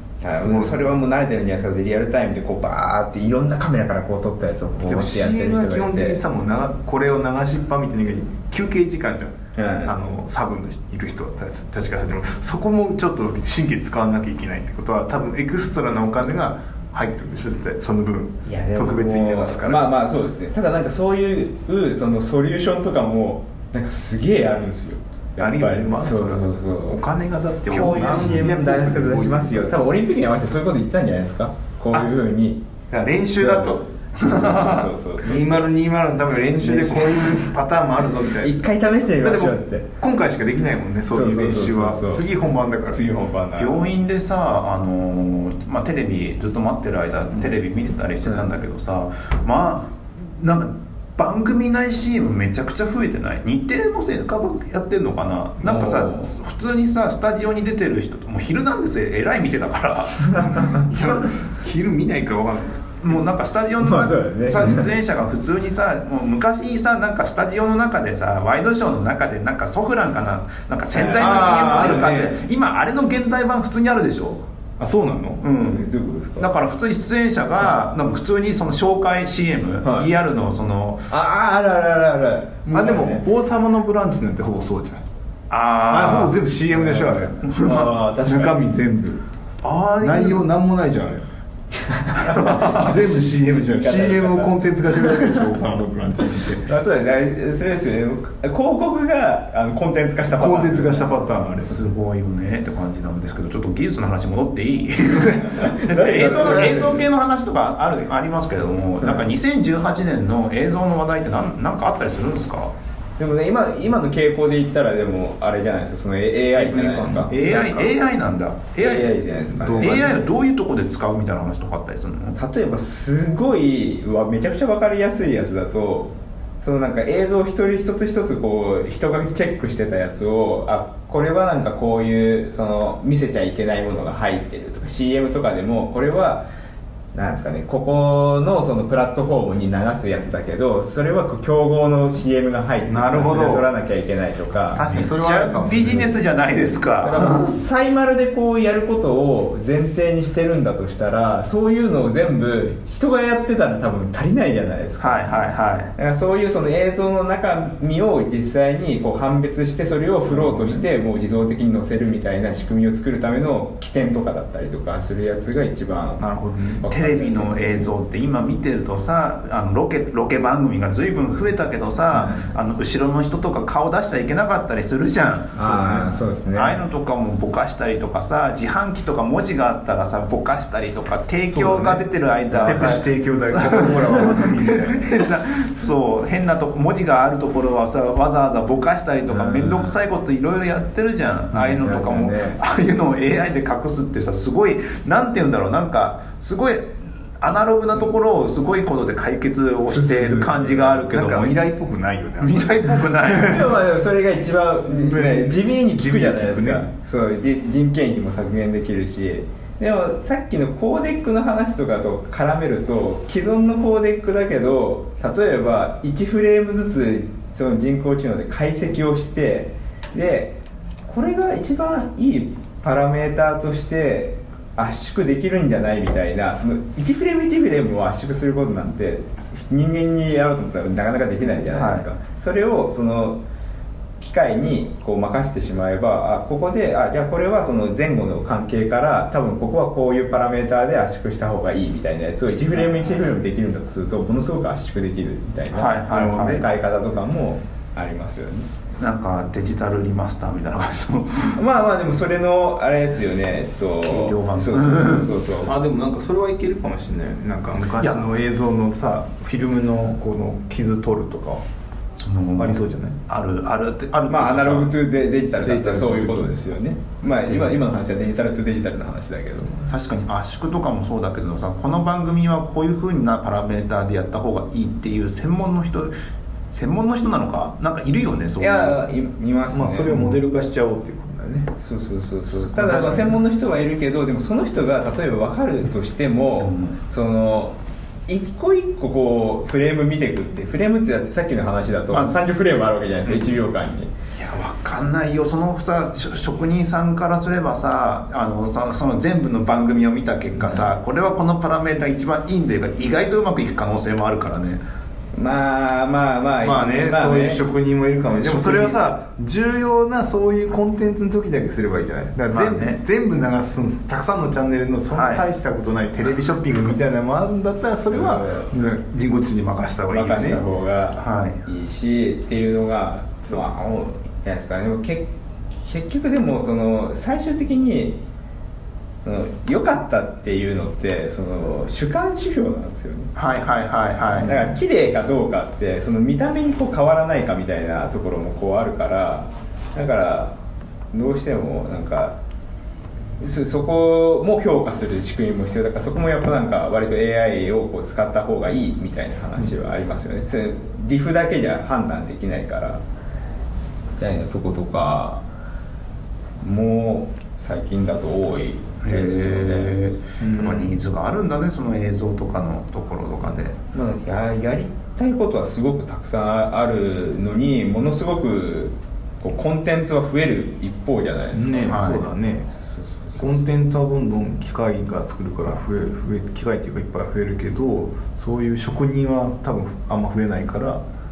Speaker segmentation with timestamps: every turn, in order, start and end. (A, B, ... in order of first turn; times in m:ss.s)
0:00.2-0:06.2 A
0:00.3-0:01.0 B
0:04.8-0:19.9 B
0:09.6-0:09.9 A
0:18.4-0:27.0 A
0:25.4-0:29.8 B
0:27.7-0:32.7 A
0:27.7-0:28.5 C
0:32.9-0:38.6 B
0:33.4-0:35.7 A
0:34.3-0:34.8 C
0:36.6-0:37.4 A
0:38.2-0:39.9 A
0:39.2-0:43.0 B
0:41.1-0:42.3 A
0:42.9-0:43.8 A
0:43.6-1:00.9 C
0:55.6-0:56.3 A
1:00.3-1:00.8 A
1:00.6-1:02.9 B
1:03.0-1:14.4 C
1:03.8-1:04.9 A
1:10.9-1:12.1 A
1:11.1-1:12.4 B
1:14.8-1:15.4 B
1:15.4-1:21.1 C
1:15.5-1:16.5 A
1:19.8-1:20.1 A
1:21.1-1:23.2 A
1:22.7-1:25.0 B
1:25.5-1:26.4 C
1:25.9-1:29.2 B
1:26.7-1:28.5 A
1:27.4-1:27.9 C
1:29.6-1:30.4 C
1:30.0-1:31.2 B
1:32.0-1:32.9 A
1:32.3-1:36.7 B
1:32.3-1:32.8 C
1:33.5-1:35.4 A
1:36.6-1:41.3 A
1:40.3-1:41.8 B
1:41.6-1:52.7 C
1:45.2-1:47.0 B
1:45.6-1:47.0 A
1:53.2-1:57.6 A
1:56.5-1:57.9 B
1:57.3-1:59.2 C
1:58.8-2:00.2 A
1:59.5-2:00.2 B
1:59.8-2:02.4 C
2:02.4-2:16.5 A
2:17.1-2:24.8 A
2:22.9-2:23.7 B
2:24.7-2:26.2 B
2:24.8-2:27.6 C
2:27.0-2:46.3 A
2:35.0-2:35.9 C
2:40.3-2:40.8 B
2:46.2-2:46.8 B
2:46.8-2:47.9 A
2:46.9-2:55.9 C
2:52.1-2:52.5 A
2:55.5-2:56.8 A
2:55.6-2:56.0 B
2:56.5-3:21.5 C
3:01.5-3:02.0 B
3:02.5-3:03.0 A
3:02.6-3:05.2 B
3:09.3-3:10.0 A
3:11.5-3:12.6 A
3:19.9-3:20.6 A
3:21.1-3:23.6 B
3:22.4-3:23.7 C
3:23.3-3:53.4 A
3:24.9-3:26.9 B
3:51.7-3:52.0 C
3:54.2-4:08.7 A
4:05.7-4:06.6 C
4:06.1-4:06.6 B
4:09.0-4:11.6 C
4:11.5-4:15.7 A
4:14.0-4:15.3 C
4:15.6-4:21.6 B
4:22.2-4:25.0 C
4:22.6-4:23.2 B
4:24.3-4:29.8 A
4:25.6-4:26.6 B
4:27.5-4:27.8 C
4:29.8-4:36.1 C
4:36.7-4:39.0 C
4:38.6-4:40.1 A
4:39.7-4:41.7 B
4:40.1-4:40.4 C
4:41.8-4:47.8 A
4:42.5-4:43.4 B
4:46.6-4:47.0 C
4:48.3-4:54.1 A
4:52.1-4:52.5 C
4:53.2-4:53.6 C
4:54.3-5:04.8 C
5:05.3-5:07.6 A
5:06.6-5:20.6 B
5:08.4-5:09.0 C
5:12.5-5:13.0 C
5:15.1-5:15.4 C
5:18.1-5:18.7 A
5:20.1-5:28.2 A
5:21.2-5:21.6 C
5:29.2-5:33.3 A
5:33.4-5:34.7 C
5:34.4-5:40.5 A
5:41.1-5:42.4 A
5:43.4-5:53.0 A
5:54.2-5:55.4 A
5:56.6-6:00.0 A
5:59.0-6:03.8 C
6:00.4-6:01.0 B
6:03.9-6:12.1 A
6:11.5-6:12.7 B
6:11.8-6:12.3 C
6:13.0-6:13.6 A
6:13.4-6:21.0 B